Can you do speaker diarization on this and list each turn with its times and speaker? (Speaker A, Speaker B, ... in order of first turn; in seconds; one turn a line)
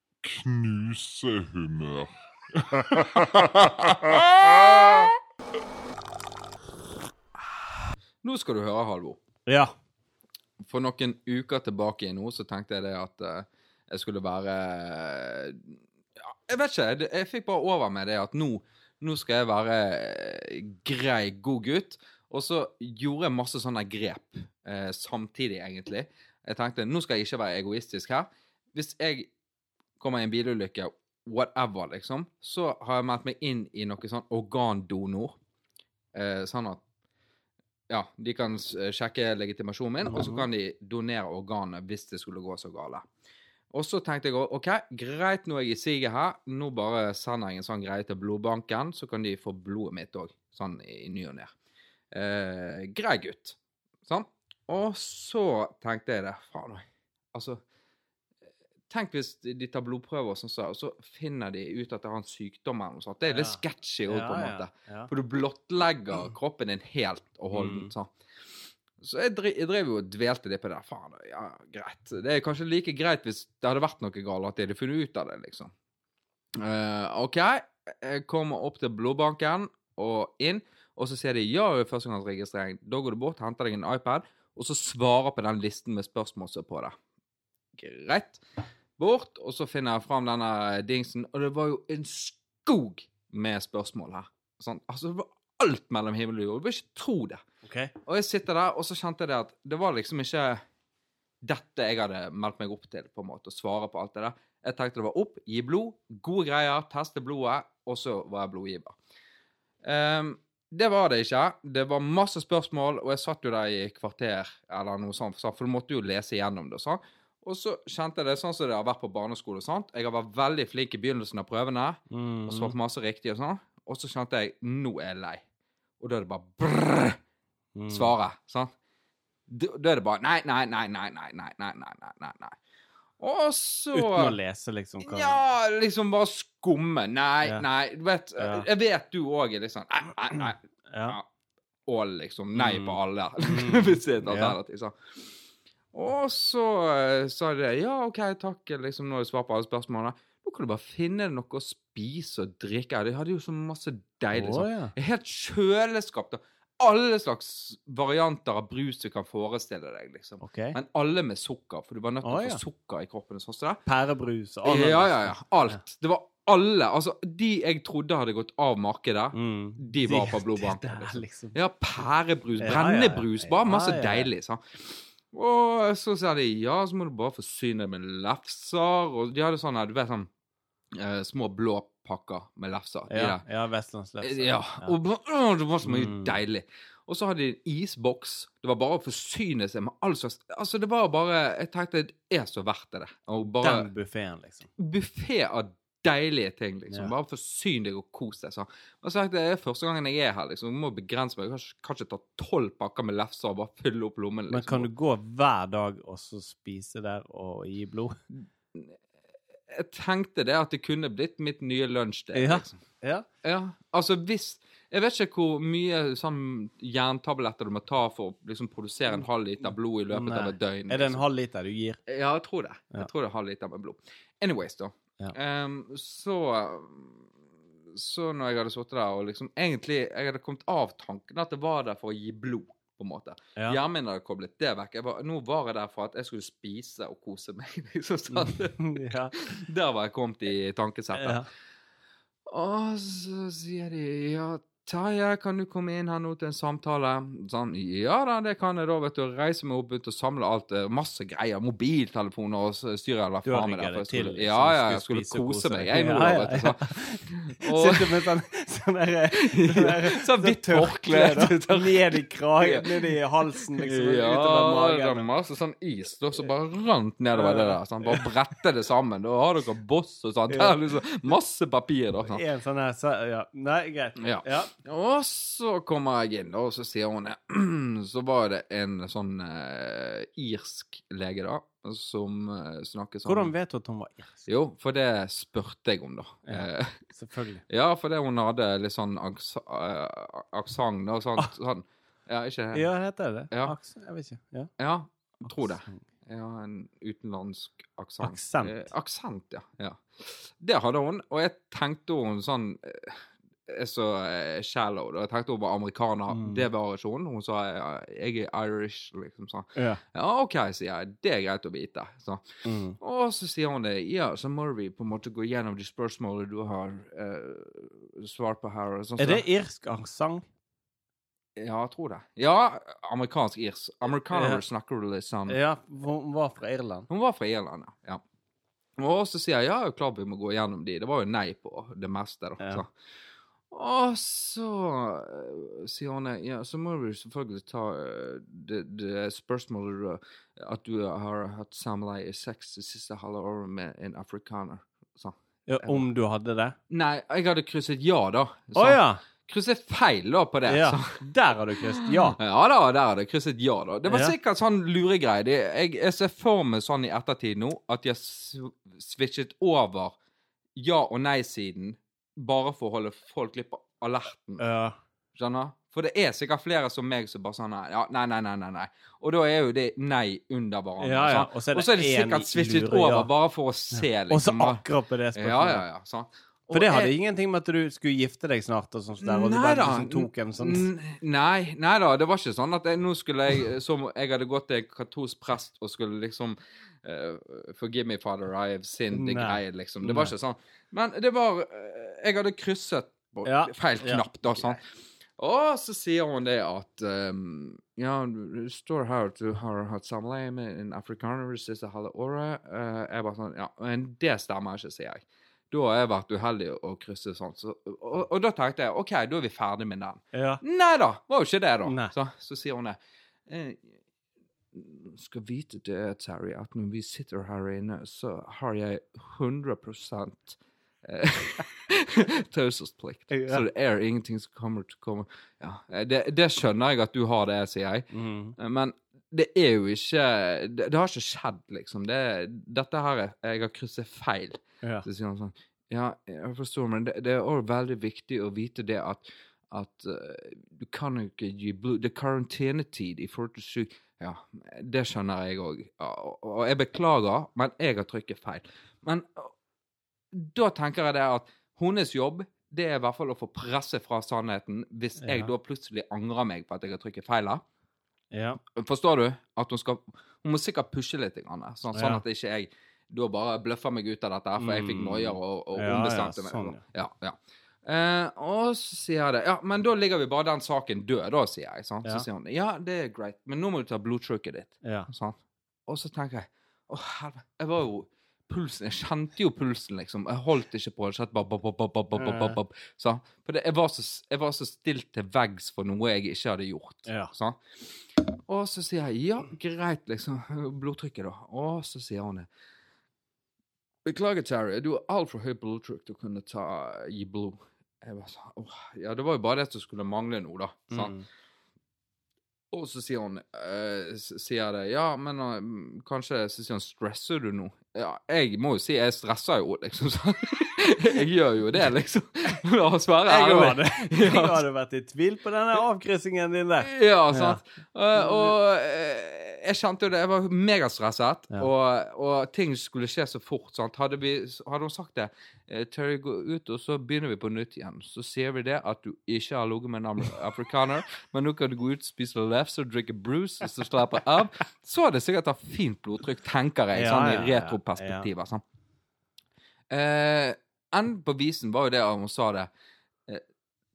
Speaker A: 0.2-2.1
Speaker A: 2.6-5.0
Speaker B: 4.4-5.1
Speaker B: 8.2-9.2
Speaker B: 10.6-29.3
Speaker B: 30.0-35.4
Speaker B: 36.1-36.8
Speaker B: 37.9-43.1
Speaker C: 40.0-40.5
Speaker B: 43.7-51.5
Speaker B: 52.1-57.6
Speaker B: 58.9-75.7
Speaker C: 63.3-65.1
Speaker C: 67.5-67.9
Speaker B: 76.5-86.9
Speaker B: 87.7-88.4
Speaker B: 89.0-97.4
Speaker C: 97.6-97.9
Speaker B: 98.0-100.6
Speaker B: 101.4-109.0
Speaker B: 109.8-125.4
Speaker C: 122.1-122.7
Speaker B: 126.0-127.2
Speaker C: 127.7-128.1
Speaker B: 127.9-128.7
Speaker B: 129.5-132.6
Speaker B: 133.2-134.4
Speaker C: 133.9-135.4
Speaker B: 135.0-141.3
Speaker C: 138.4-138.7
Speaker C: 140.9-141.2
Speaker B: 141.9-145.4
Speaker C: 142.5-144.6
Speaker B: 145.9-163.8
Speaker C: 154.3-154.9
Speaker C: 160.4-160.8
Speaker C: 162.2-162.6
Speaker C: 163.8-165.8
Speaker B: 164.6-180.3
Speaker C: 169.3-171.6
Speaker C: 172.6-174.3
Speaker B: 180.9-183.4
Speaker C: 183.1-184.9
Speaker B: 184.2-193.9
Speaker C: 185.8-186.3
Speaker C: 193.6-194.7
Speaker B: 194.8-204.9
Speaker C: 204.5-208.2
Speaker B: 208.3-209.0
Speaker B: 209.7-212.8
Speaker C: 212.3-213.2
Speaker B: 213.4-221.2
Speaker C: 220.1-222.0
Speaker B: 222.1-227.3
Speaker B: 227.9-241.5
Speaker C: 238.3-239.4
Speaker C: 241.1-241.4
Speaker B: 242.5-258.3
Speaker C: 253.4-265.2
Speaker B: 259.3-272.4
Speaker C: 267.3-268.3
Speaker C: 270.5-270.8
Speaker C: 272.2-274.7
Speaker B: 274.2-283.5
Speaker C: 283.2-284.4
Speaker B: 284.4-287.0
Speaker C: 286.4-287.6
Speaker B: 287.7-292.9
Speaker C: 292.7-294.7
Speaker B: 294.8-312.4
Speaker C: 298.2-298.8
Speaker C: 306.3-306.6
Speaker C: 309.7-310.0
Speaker C: 312.6-312.9
Speaker B: 313.0-319.4
Speaker C: 319.2-320.4
Speaker B: 321.6-325.6
Speaker C: 324.3-324.6
Speaker C: 325.5-327.1
Speaker B: 327.1-328.2
Speaker B: 329.0-332.9
Speaker B: 333.7-346.1
Speaker C: 345.7-346.8
Speaker B: 346.9-351.2
Speaker C: 348.7-349.2
Speaker C: 350.7-352.4
Speaker B: 351.9-360.1
Speaker C: 354.1-354.3
Speaker B: 360.8-364.6
Speaker C: 364.6-364.9
Speaker B: 365.3-377.1
Speaker C: 371.0-373.3
Speaker C: 373.9-375.8
Speaker C: 376.7-380.9
Speaker B: 379.2-394.8
Speaker C: 389.1-390.3
Speaker C: 393.4-394.8
Speaker B: 395.4-413.9
Speaker C: 410.3-410.6
Speaker C: 411.8-412.1
Speaker B: 414.7-449.5
Speaker C: 423.3-423.6
Speaker C: 428.1-428.6
Speaker B: 450.3-457.6
Speaker C: 455.2-455.5
Speaker C: 458.3-458.6
Speaker B: 458.7-492.5
Speaker C: 461.9-462.2
Speaker C: 464.6-466.8
Speaker C: 474.8-475.1
Speaker C: 482.1-482.6
Speaker C: 487.1-487.3
Speaker B: 494.0-501.1
Speaker C: 500.9-501.2
Speaker B: 502.7-514.6
Speaker C: 513.2-517.6
Speaker B: 516.8-538.6
Speaker C: 518.1-518.5
Speaker C: 536.9-538.3
Speaker B: 539.9-542.7